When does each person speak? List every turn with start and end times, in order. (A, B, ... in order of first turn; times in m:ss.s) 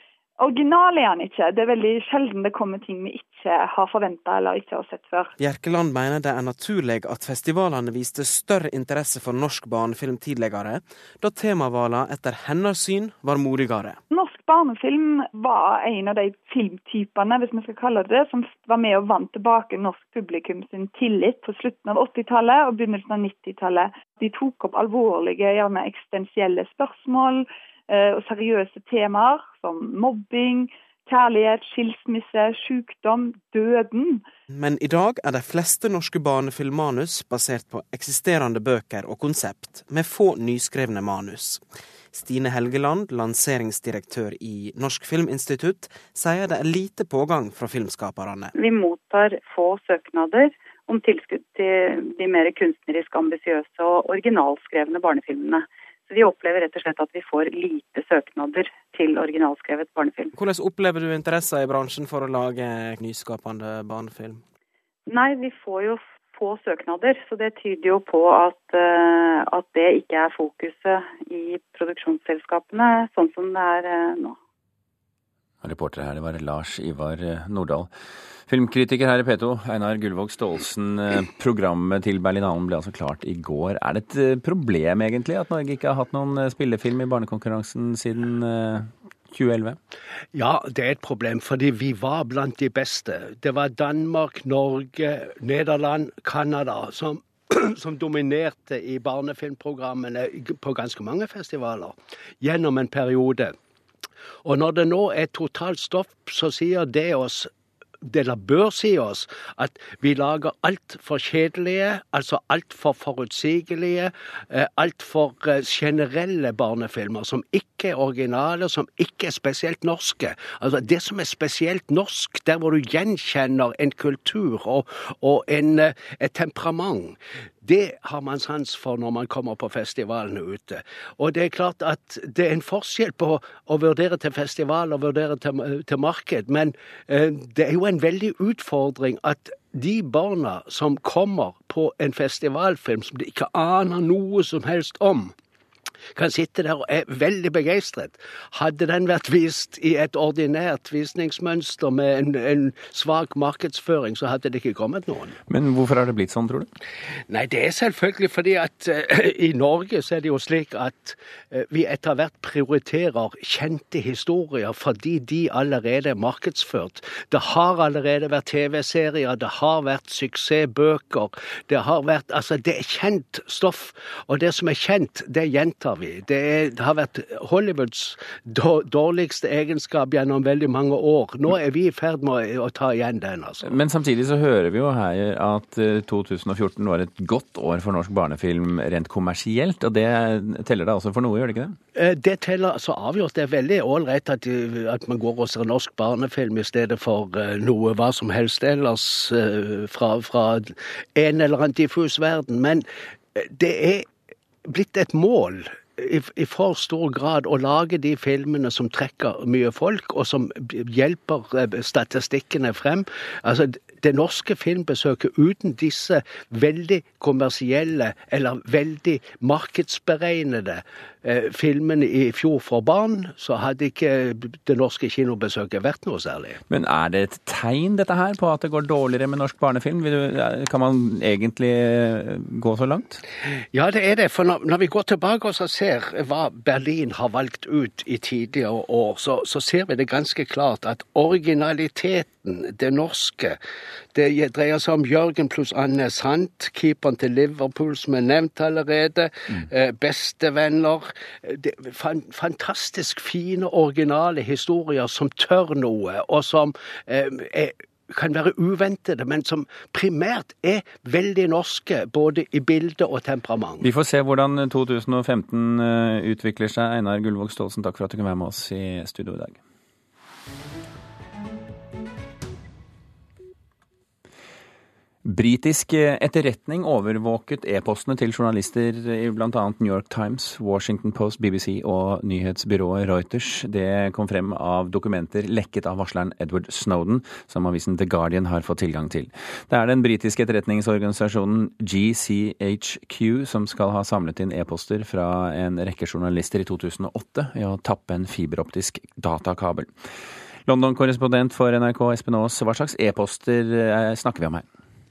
0:00.4-0:05.3 A
0:05.4-0:14.0 B
0:14.1-0:34.2 A
0:34.5-0:48.5 B
0:48.6-1:00.3 C
1:00.3-1:04.4 B
1:05.1-1:14.4 C
1:15.6-1:17.9 D
1:18.5-1:29.8 D
1:30.3-1:43.5 E
1:44.4-1:47.5 E
1:48.0-2:25.3 E
2:26.1-2:35.4 E
2:35.5-2:36.7 D
2:37.3-3:03.7 E
3:03.6-3:11.8 D
3:11.9-3:24.1 E
3:24.6-3:46.6 E
3:46.7-3:53.2 D
3:53.7-4:03.6 E
4:04.1-4:23.8 E
4:23.8-4:29.6 D
4:35.2-4:59.9 D
5:00.6-5:04.7 D